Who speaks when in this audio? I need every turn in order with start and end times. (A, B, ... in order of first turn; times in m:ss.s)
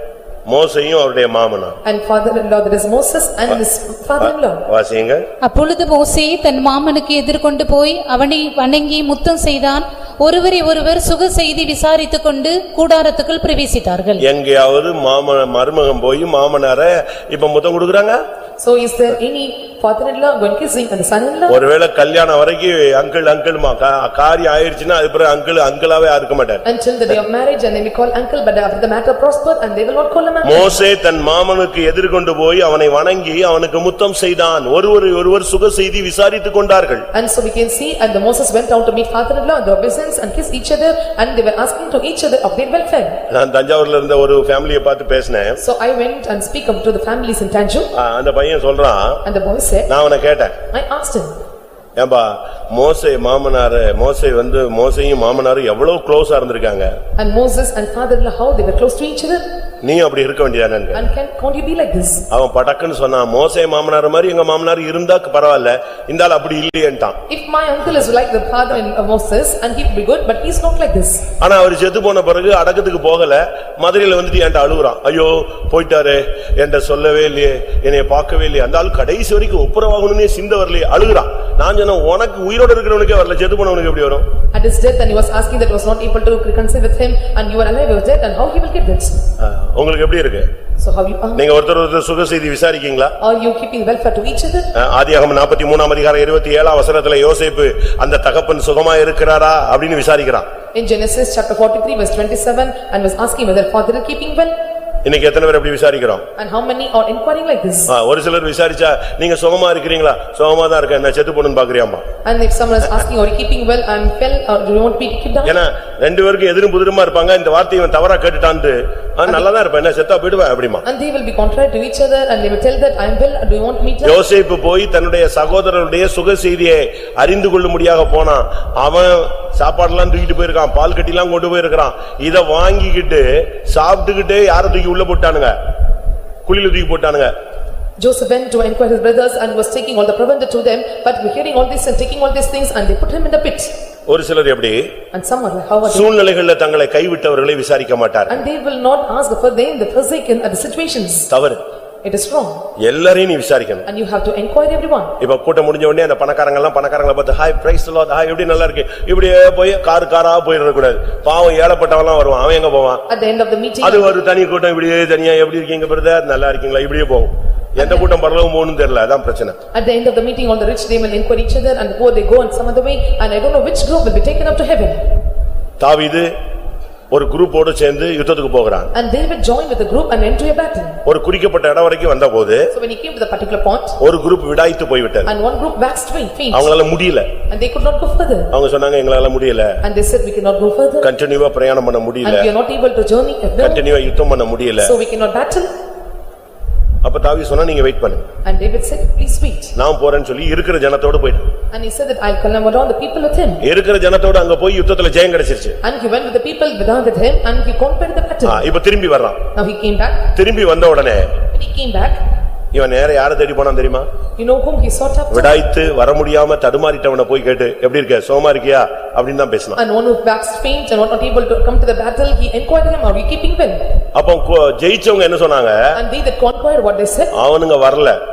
0:00.5-0:01.8 A
0:01.8-0:04.7 B
0:04.2-0:05.2 A
0:05.4-0:14.2 C
0:14.2-0:18.2 A
0:18.6-0:21.6 B
0:21.5-0:26.6 A
0:26.6-0:30.8 B
0:30.4-0:37.0 A
0:37.1-0:43.2 B
0:43.3-0:45.6 A
0:45.6-0:47.9 B
0:47.9-0:49.2 A
0:49.2-0:49.9 B
0:49.9-0:50.6 A
0:50.7-0:51.4 B
0:52.0-0:56.9 A
0:57.2-0:59.4 B
0:59.8-1:01.1 A
1:00.9-1:02.3 B
1:02.3-1:07.2 A
1:07.3-1:11.3 B
1:11.4-1:24.3 A
1:24.5-1:29.2 B
1:29.4-1:30.5 A
1:30.8-1:31.4 B
1:31.4-1:33.1 A
1:33.2-1:34.7 B
1:34.7-1:40.5 A
1:40.7-1:44.6 B
1:45.0-1:46.2 A
1:46.4-1:47.9 B
1:47.9-1:52.0 A
1:52.2-1:55.5 B
1:55.4-2:00.8 A
2:00.8-2:04.2 B
2:04.0-2:15.5 A
2:16.4-2:17.3 A
2:18.0-2:23.7 B
2:24.1-2:24.9 A
2:25.1-2:26.1 B
2:25.8-2:28.4 A
2:28.3-2:31.3 B
2:31.3-2:31.6 A
2:32.0-2:32.6 B
2:32.8-2:33.8 A
2:33.9-2:35.2 B
2:35.2-2:43.0 A
2:43.1-2:44.1 B
2:43.8-2:49.6 A
2:47.8-2:48.1 B
2:49.7-2:55.0 B
2:55.8-2:56.3 A
2:57.1-2:58.9 A
2:58.9-3:01.0 B
3:01.0-3:02.7 A
3:02.7-3:04.0 B
3:04.0-3:05.3 A
3:05.2-3:06.7 B
3:06.5-3:07.3 A
3:07.5-3:08.5 B
3:08.5-3:09.8 A
3:09.8-3:11.1 B
3:11.0-3:12.5 A
3:12.2-3:13.8 B
3:13.6-3:14.9 A
3:14.8-3:15.7 B
3:17.0-3:18.3 A
3:18.4-3:19.7 B
3:19.8-3:21.5 A
3:21.7-3:23.6 B
3:23.6-3:25.8 A
3:25.8-3:28.7 B
3:28.4-3:29.4 A
3:29.5-3:30.3 B
3:30.3-3:31.4 A
3:31.5-3:32.2 B
3:32.7-3:34.1 A
3:34.4-3:35.6 B
3:35.3-3:39.8 A
3:39.8-3:43.8 B
3:44.1-3:45.9 A
3:45.9-3:47.3 B
3:47.3-3:48.2 A